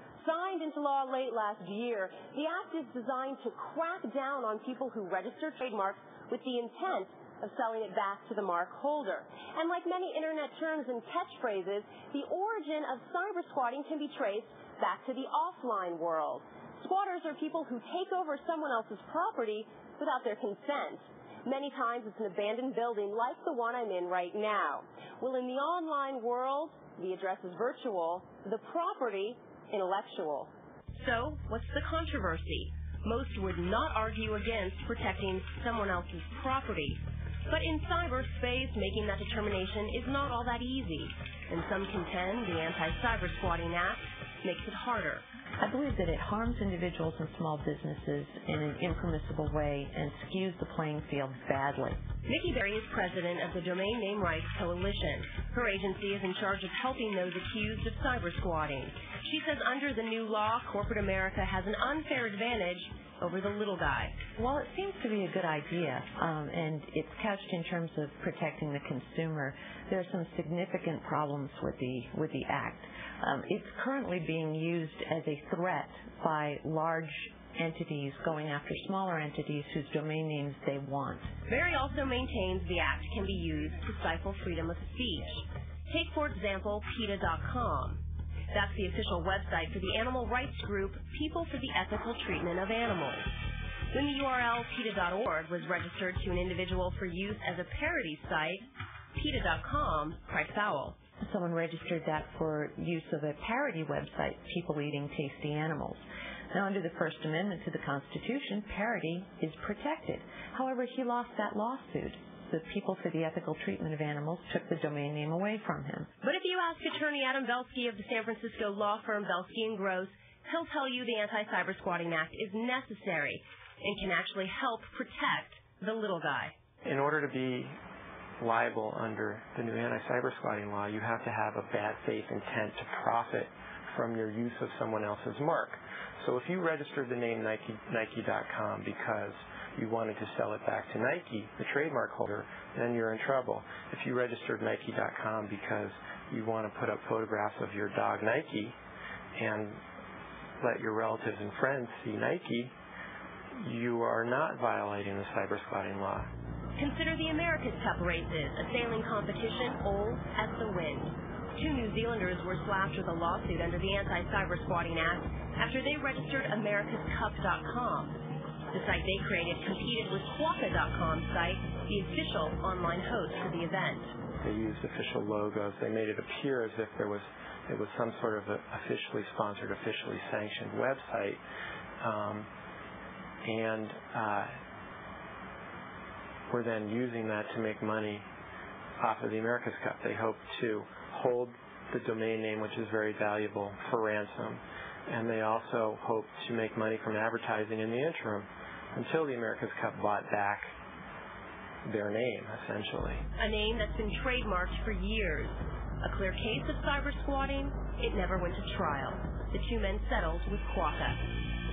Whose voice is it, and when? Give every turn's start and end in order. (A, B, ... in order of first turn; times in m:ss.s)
0:00.2-0:45.3 A
0:45.6-0:52.0 B
0:52.2-1:04.2 A
1:04.4-1:21.3 B
1:21.5-1:33.3 A
1:33.9-1:41.0 A
1:41.2-1:56.1 B
1:56.2-2:06.6 A
2:06.8-2:07.8 C
2:08.4-2:28.8 C
2:29.4-2:29.8 C
2:30.6-2:32.7 C
2:33.6-2:36.3 C
2:36.8-2:48.2 A
2:48.7-2:54.2 A
2:54.4-3:01.4 C
3:02.0-3:02.5 C
3:03.4-3:04.6 C
3:06.5-3:08.3 C
3:09.0-3:20.7 C
3:21.8-3:23.3 C
3:23.4-3:31.3 A